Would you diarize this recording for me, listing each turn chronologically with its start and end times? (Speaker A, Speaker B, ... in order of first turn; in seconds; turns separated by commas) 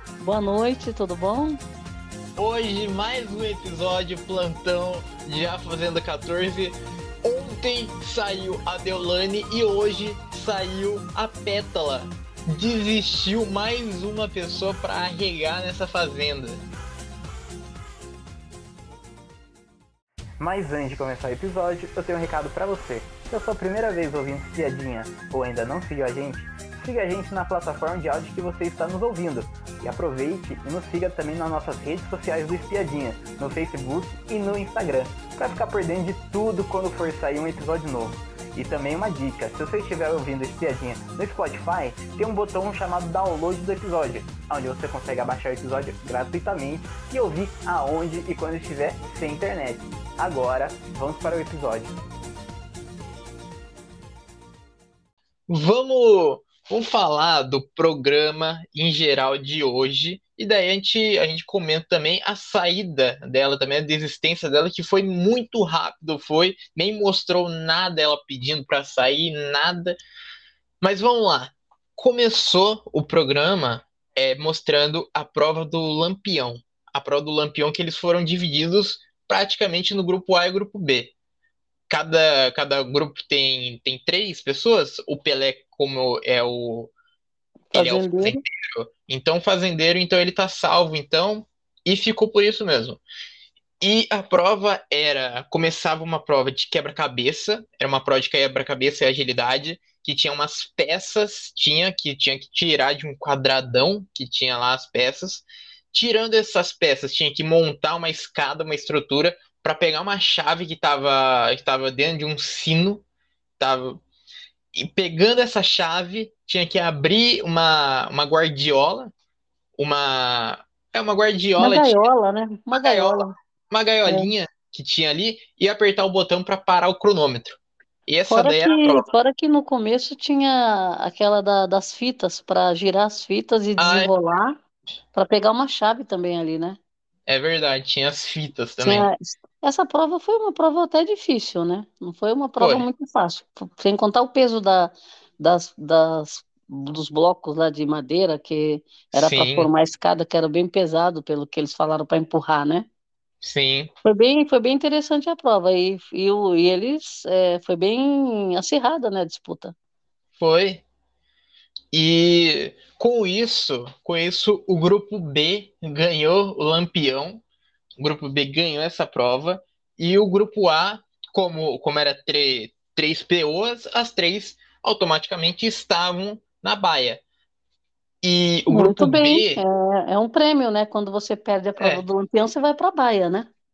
Speaker A: 0.2-1.6, Speaker B: 2.4-16.6, Speaker C: 20.4-52.0, Speaker B: 55.5-70.0, Speaker B: 70.8-81.1, Speaker B: 81.9-86.9, Speaker A: 87.7-88.4, Speaker B: 87.7-93.0, Speaker B: 93.8-113.0, Speaker B: 113.6-114.0, Speaker B: 114.8-119.1, Speaker B: 119.8-122.0, Speaker A: 121.6-123.3, Speaker B: 122.7-129.0, Speaker A: 128.3-134.6, Speaker B: 133.8-134.1, Speaker A: 135.1-136.8, Speaker B: 137.3-139.1, Speaker A: 138.8-152.9, Speaker B: 142.6-142.9, Speaker B: 149.2-149.7, Speaker B: 153.4-153.9, Speaker A: 154.0-159.7, Speaker B: 160.4-160.8, Speaker B: 161.9-167.4, Speaker B: 168.0-177.2, Speaker B: 178.2-179.6, Speaker A: 178.7-183.5, Speaker B: 181.8-182.0